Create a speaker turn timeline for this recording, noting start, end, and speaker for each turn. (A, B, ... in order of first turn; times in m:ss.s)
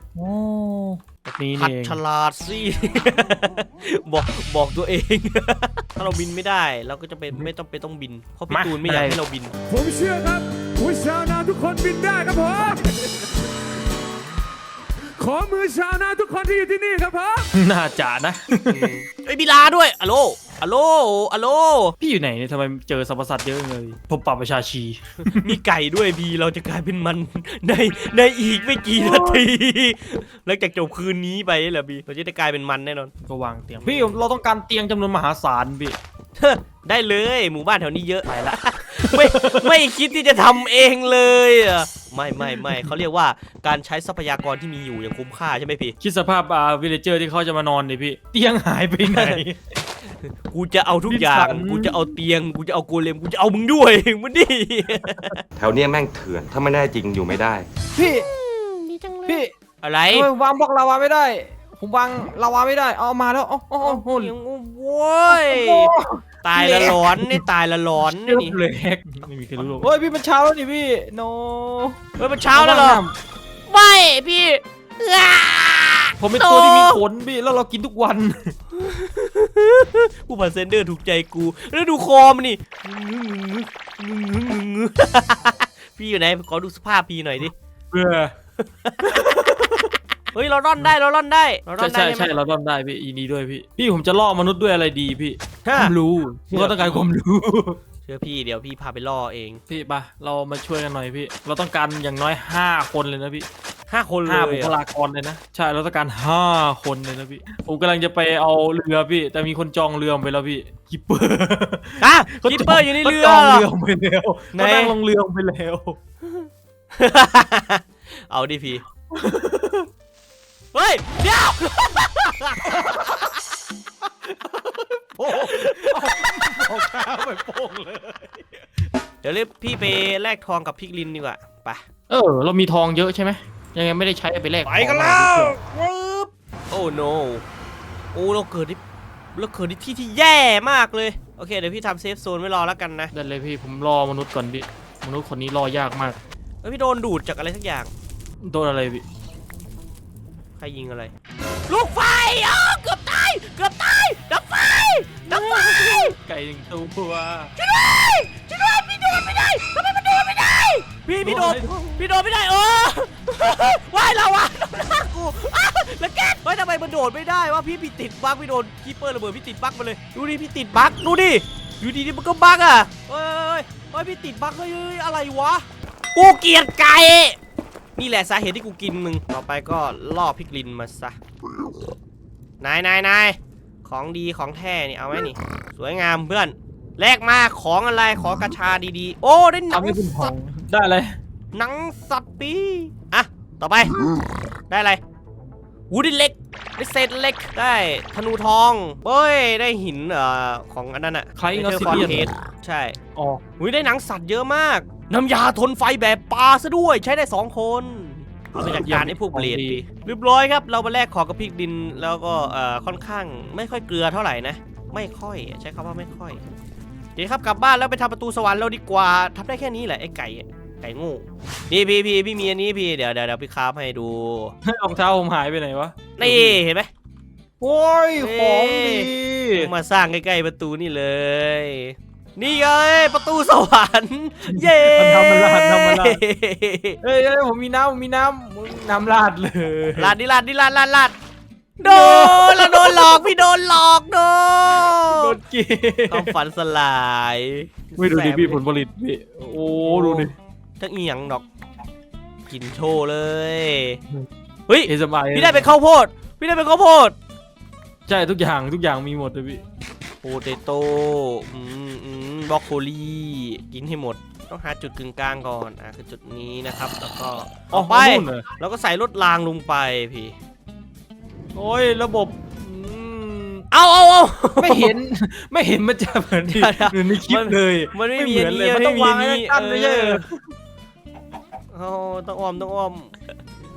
0:00.2-0:02.0 A
0:01.5-0:09.5 B
0:08.5-0:09.2 A
0:09.7-0:13.2 C
0:15.1-0:17.5 C
0:17.5-0:18.9 A
0:18.7-0:21.9 B
0:22.0-0:25.6 A
0:25.3-0:33.1 B
0:29.0-0:29.4 A
0:33.2-0:36.0 A
0:33.8-0:34.2 B
0:36.4-0:45.9 B
0:38.2-0:39.8 A
0:42.6-0:42.9 A
0:46.0-0:49.6 A
0:49.0-0:49.4 B
0:50.2-0:55.4 B
0:51.1-0:52.1 A
0:55.6-0:57.6 D
0:57.9-0:58.3 A
0:58.0-1:00.3 B
0:59.3-0:59.5 A
1:00.1-1:04.3 A
1:03.8-1:08.6 B
1:05.3-1:07.4 A
1:08.0-1:12.0 A
1:09.6-1:09.9 B
1:12.2-1:13.0 B
1:12.5-1:13.1 A
1:13.7-1:17.0 B
1:16.2-1:18.5 A
1:18.7-1:27.5 B
1:27.9-1:28.3 A
1:28.6-1:29.2 B
1:29.0-1:29.9 A
1:30.3-1:32.3 B
1:31.8-1:37.8 A
1:35.6-1:35.9 B
1:36.5-1:37.1 B
1:38.0-1:39.6 B
1:39.7-1:43.4 A
1:43.9-1:44.8 B
1:44.2-1:56.0 A
1:52.0-1:53.7 B
1:54.5-1:55.0 B
1:56.2-1:58.8 B
1:59.1-1:59.9 A
2:00.7-2:03.1 B
2:02.6-2:03.2 A
2:04.3-2:08.5 A
2:05.3-2:07.0 B
2:09.2-2:11.8 B
2:12.1-2:15.6 A
2:14.6-2:17.4 B
2:18.1-2:18.8 B
2:19.3-2:23.1 B
2:23.1-2:26.2 A
2:26.6-2:27.9 B
2:28.4-2:29.0 A
2:30.6-2:31.1 B
2:31.7-2:36.1 B
2:35.3-2:37.5 A
2:37.6-2:57.4 B
2:41.2-2:42.0 A
2:58.0-3:01.2 B
3:02.6-3:10.3 B
3:09.7-3:11.2 A
3:11.5-3:14.0 B
3:14.7-3:15.0 B
3:15.9-3:23.0 B
3:21.4-3:22.3 A
3:23.1-3:23.4 A
3:23.6-3:36.4 B
3:28.6-3:29.8 A
3:37.2-3:44.5 B
3:44.6-3:46.6 A
3:46.2-3:46.9 B
3:47.6-3:49.7 A
3:48.2-3:57.0 B
3:54.4-3:56.2 A
3:57.0-4:00.2 A
4:00.0-4:01.2 B
4:01.8-4:03.2 A
4:01.8-4:05.4 B
4:05.1-4:06.3 A
4:06.1-4:08.6 B
4:08.0-4:10.3 A
4:09.9-4:11.4 B
4:12.5-4:14.0 B
4:14.7-4:17.1 B
4:14.9-4:15.7 A
4:18.1-4:19.6 A
4:20.2-4:30.3 B
4:27.7-4:28.4 A
4:31.5-4:33.6 A
4:33.7-4:35.0 B
4:34.6-4:40.4 A
4:36.5-4:40.2 B
4:41.7-4:43.3 B